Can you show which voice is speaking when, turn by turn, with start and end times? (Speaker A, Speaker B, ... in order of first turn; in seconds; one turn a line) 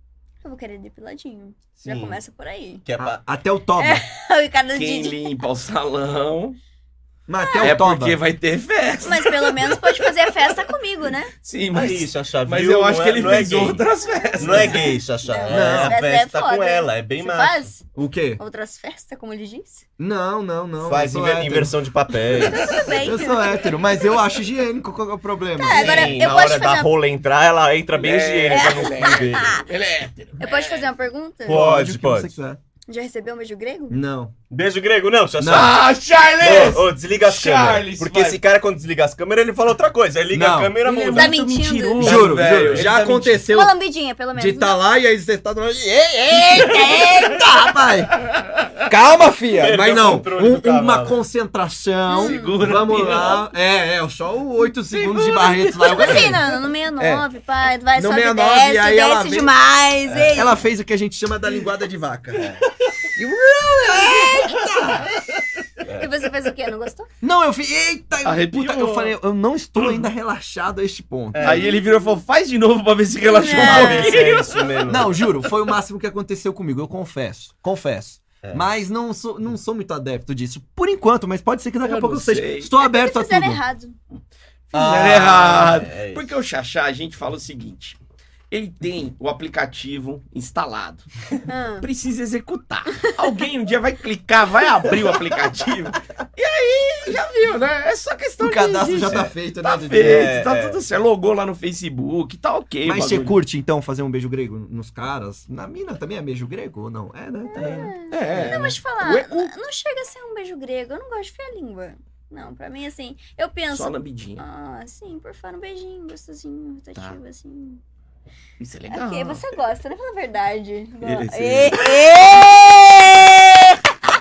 Speaker A: 0.4-2.8
Speaker B: 1.8-2.2
Speaker B: 2.9-3.2
Speaker C: 3.0-4.0
Speaker A: 3.8-5.4
Speaker D: 4.7-6.6
Speaker C: 7.3-8.2
Speaker A: 7.4-7.8
Speaker D: 7.6-10.1
Speaker A: 9.0-11.3
Speaker D: 11.4-14.9
Speaker B: 11.7-13.9
Speaker A: 14.0-17.9
Speaker B: 14.4-17.7
Speaker C: 15.5-16.0
Speaker C: 17.9-18.4
Speaker A: 18.4-19.9
Speaker C: 20.0-21.8
Speaker B: 20.8-23.0
Speaker A: 22.3-24.2
Speaker C: 22.9-26.1
Speaker A: 25.6-26.9
Speaker B: 25.7-29.6
Speaker D: 25.8-26.2
Speaker D: 27.9-30.9
Speaker A: 28.5-29.6
Speaker A: 30.4-31.6
Speaker B: 31.4-32.3
Speaker C: 31.4-32.6
Speaker A: 32.9-34.0
Speaker C: 33.9-34.3
Speaker B: 34.5-35.8
Speaker C: 35.4-35.8
Speaker D: 35.5-38.4
Speaker B: 36.4-41.4
Speaker C: 40.3-40.8
Speaker D: 40.8-43.2
Speaker A: 41.1-42.2
Speaker B: 42.0-43.4
Speaker C: 42.0-43.7
Speaker A: 43.5-44.8
Speaker C: 44.4-48.2
Speaker A: 46.3-47.5
Speaker C: 48.9-57.2
Speaker B: 49.6-51.2
Speaker A: 52.1-52.6
Speaker D: 52.1-53.5
Speaker A: 54.9-60.6
Speaker C: 58.0-59.5
Speaker B: 60.1-60.5
Speaker C: 60.3-62.6
Speaker C: 63.1-65.1
Speaker A: 64.1-64.7
Speaker B: 65.8-66.1
Speaker A: 66.0-67.1
Speaker C: 67.2-71.7
Speaker D: 68.2-69.2
Speaker B: 71.3-71.8
Speaker D: 71.4-74.9
Speaker A: 73.2-74.4
Speaker B: 73.6-75.3
Speaker C: 74.9-83.6
Speaker B: 78.4-78.7
Speaker D: 81.8-82.7
Speaker A: 82.8-84.0
Speaker D: 84.7-88.0
Speaker B: 84.7-86.3
Speaker D: 88.5-91.1
Speaker A: 91.5-91.9
Speaker D: 91.8-103.3
Speaker C: 98.4-100.3
Speaker B: 100.0-100.8
Speaker C: 102.8-107.8
Speaker A: 107.5-117.8
Speaker B: 107.5-108.7
Speaker D: 108.1-109.5
Speaker D: 113.7-114.4
Speaker D: 118.6-119.4
Speaker A: 118.9-123.9
Speaker D: 121.0-121.8
Speaker B: 121.3-121.7